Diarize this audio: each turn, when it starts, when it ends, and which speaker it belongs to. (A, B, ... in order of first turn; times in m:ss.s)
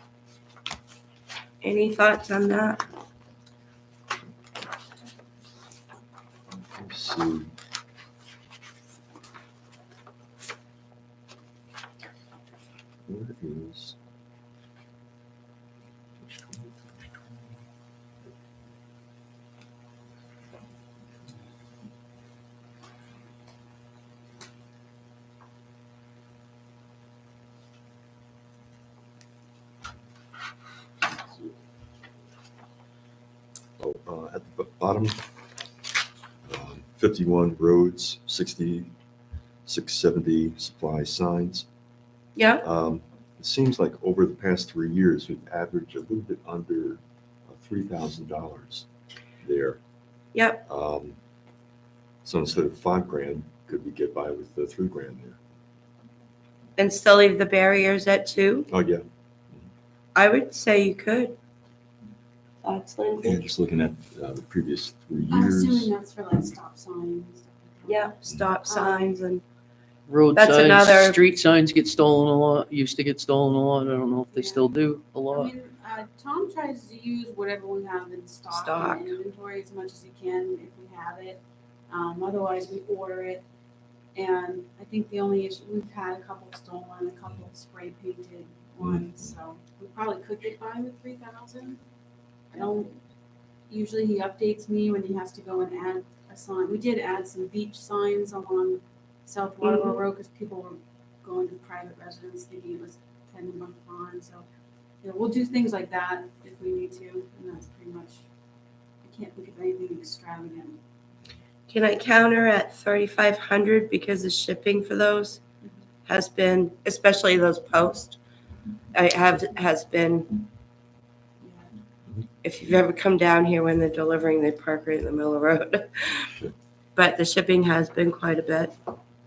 0:01.6-0:02.8 A
0:06.6-0:07.5 B
0:13.1-0:14.0 B
0:16.2-0:16.8 B
0:31.1-0:31.5 B
0:33.8-0:35.2 B
0:36.4-0:38.9 B
0:39.6-0:41.7 B
0:42.4-0:42.6 A
0:42.6-0:48.9 B
0:49.4-0:49.8 B
0:50.3-0:50.6 A
0:50.7-0:51.2 B
0:52.2-0:55.4 B
0:56.8-0:58.7 A
0:58.7-0:59.0 B
1:00.1-1:01.4 A
1:02.6-1:03.4 A
1:03.2-1:05.9 B
1:05.3-1:08.1 C
1:07.8-1:09.4 A
1:08.7-1:09.2 C
1:10.1-1:15.5 D
1:10.3-1:11.2 A
1:14.3-1:14.7 C
1:15.3-1:23.4 C
1:18.5-1:19.2 A
1:24.1-1:31.8 C
1:28.8-1:29.3 B
1:32.5-1:32.9 C
1:33.7-1:44.4 C
1:39.6-1:40.0 A
1:45.0-1:48.2 C
1:49.0-1:50.8 C
1:51.7-1:55.4 A
1:56.1-1:58.2 A
1:58.9-2:00.4 A
2:01.4-2:01.7 C
2:02.4-2:06.3 A
2:07.0-2:08.7 A